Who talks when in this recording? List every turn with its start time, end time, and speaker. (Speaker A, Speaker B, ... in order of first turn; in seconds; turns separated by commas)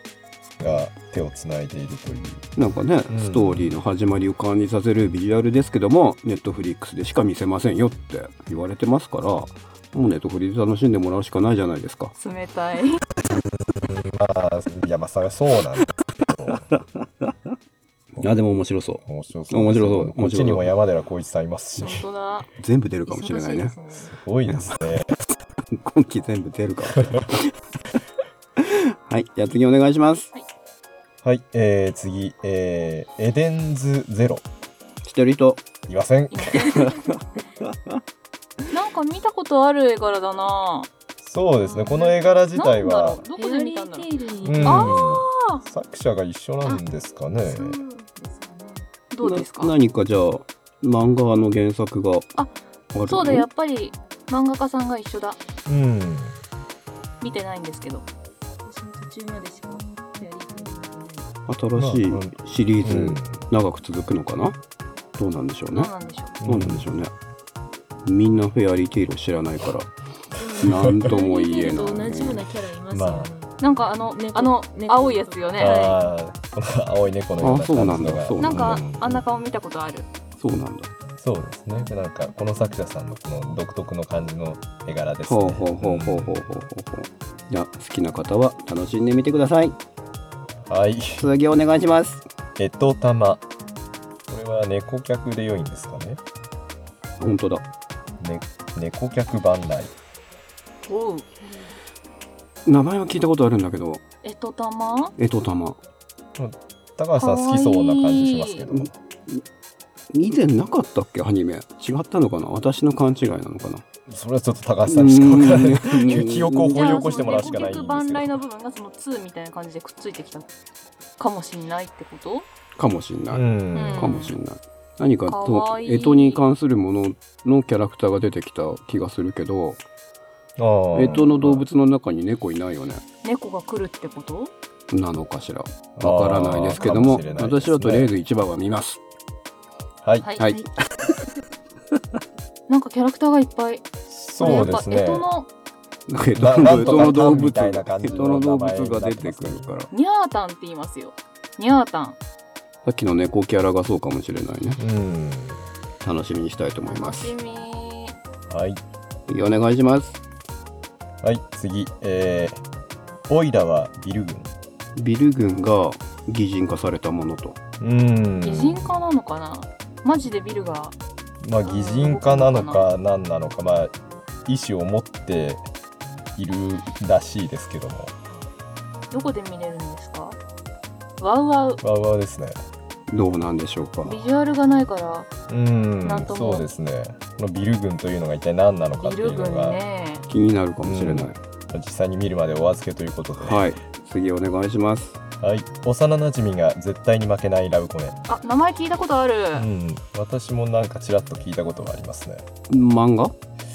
Speaker A: 0.6-2.5, Speaker B: 2.5-12.1, Speaker A: 3.1-3.8, Speaker C: 12.2-13.0, Speaker A: 13.7-16.6, Speaker B: 16.7-17.3, Speaker B: 18.2-20.7, Speaker A: 19.0-22.1, Speaker C: 21.8-22.5, Speaker B: 22.6-23.8, Speaker D: 23.1-24.1, Speaker A: 24.1-25.1, Speaker B: 24.4-25.0, Speaker B: 25.7-27.5, Speaker B: 28.6-30.3, Speaker A: 31.2-34.4, Speaker B: 35.0-35.6, Speaker A: 35.9-36.8, Speaker C: 36.3-36.9, Speaker B: 36.7-37.8, Speaker C: 38.7-40.9, Speaker A: 41.2-43.2, Speaker C: 41.7-44.1, Speaker D: 43.4-45.1, Speaker A: 44.4-47.8, Speaker C: 44.6-45.6, Speaker D: 47.4-48.9, Speaker C: 49.1-49.7, Speaker B: 49.2-52.3, Speaker C: 52.4-55.4, Speaker B: 52.9-53.5, Speaker A: 55.6-56.4, Speaker C: 57.2-58.1, Speaker D: 58.6-61.3, Speaker B: 61.5-64.6, Speaker A: 61.8-63.4, Speaker B: 65.2-65.9, Speaker C: 65.7-66.4, Speaker A: 66.4-66.9, Speaker B: 66.4-67.1, Speaker B: 68.0-69.9, Speaker D: 70.3-76.0, Speaker B: 70.6-72.4, Speaker A: 70.6-71.2, Speaker A: 72.9-73.3, Speaker C: 73.6-76.0, Speaker A: 75.6-79.2, Speaker B: 77.4-78.8, Speaker C: 78.4-80.1, Speaker B: 80.4-80.9, Speaker A: 81.2-86.4, Speaker B: 85.3-89.8, Speaker A: 90.7-91.3, Speaker B: 91.2-92.3, Speaker A: 92.6-93.4, Speaker A: 94.3-96.2, Speaker B: 97.2-97.6, Speaker A: 98.2-99.9, Speaker C: 100.8-101.7, Speaker B: 102.7-104.0, Speaker C: 104.2-105.1, Speaker B: 105.2-105.8, Speaker A: 106.3-108.9, Speaker C: 107.2-108.6, Speaker B: 108.7-109.4, Speaker B: 110.1-113.8, Speaker A: 114.1-118.4, Speaker B: 114.9-117.2, Speaker C: 116.6-120.5, Speaker C: 121.2-122.5, Speaker B: 122.8-129.8, Speaker A: 123.3-124.2, Speaker C: 123.7-124.3, Speaker C: 125.2-126.4, Speaker A: 130.6-131.7, Speaker B: 130.9-133.0, Speaker C: 133.2-134.5, Speaker B: 134.9-139.0, Speaker A: 136.0-138.1, Speaker A: 140.0-140.3, Speaker C: 140.2-140.6, Speaker B: 140.4-141.2, Speaker C: 142.7-143.8, Speaker A: 144.1-145.2, Speaker C: 144.4-145.5, Speaker B: 146.1-149.9, Speaker A: 146.3-149.7, Speaker C: 149.9-152.2, Speaker B: 152.8-154.8, Speaker A: 154.8-155.6, Speaker B: 156.0-157.3, Speaker C: 156.8-158.2, Speaker A: 158.5-158.8, Speaker B: 159.3-160.2, Speaker A: 161.2-162.6, Speaker A: 163.3-164.5, Speaker B: 164.9-167.6, Speaker A: 167.8-169.0, Speaker C: 168.4-170.9, Speaker A: 171.4-173.9, Speaker C: 171.6-172.9, Speaker A: 174.4-175.6, Speaker A: 176.3-178.1, Speaker C: 179.1-180.4, Speaker C: 181.2-181.8, Speaker A: 181.8-182.6, Speaker B: 183.1-184.2, Speaker C: 184.0-185.3, Speaker A: 185.5-189.8, Speaker C: 186.0-186.7, Speaker C: 189.0-190.2, Speaker B: 190.3-191.4, Speaker A: 190.8-193.7, Speaker B: 193.4-195.2, Speaker A: 195.4-198.2, Speaker C: 198.3-199.7, Speaker A: 199.5-202.5, Speaker B: 202.7-203.3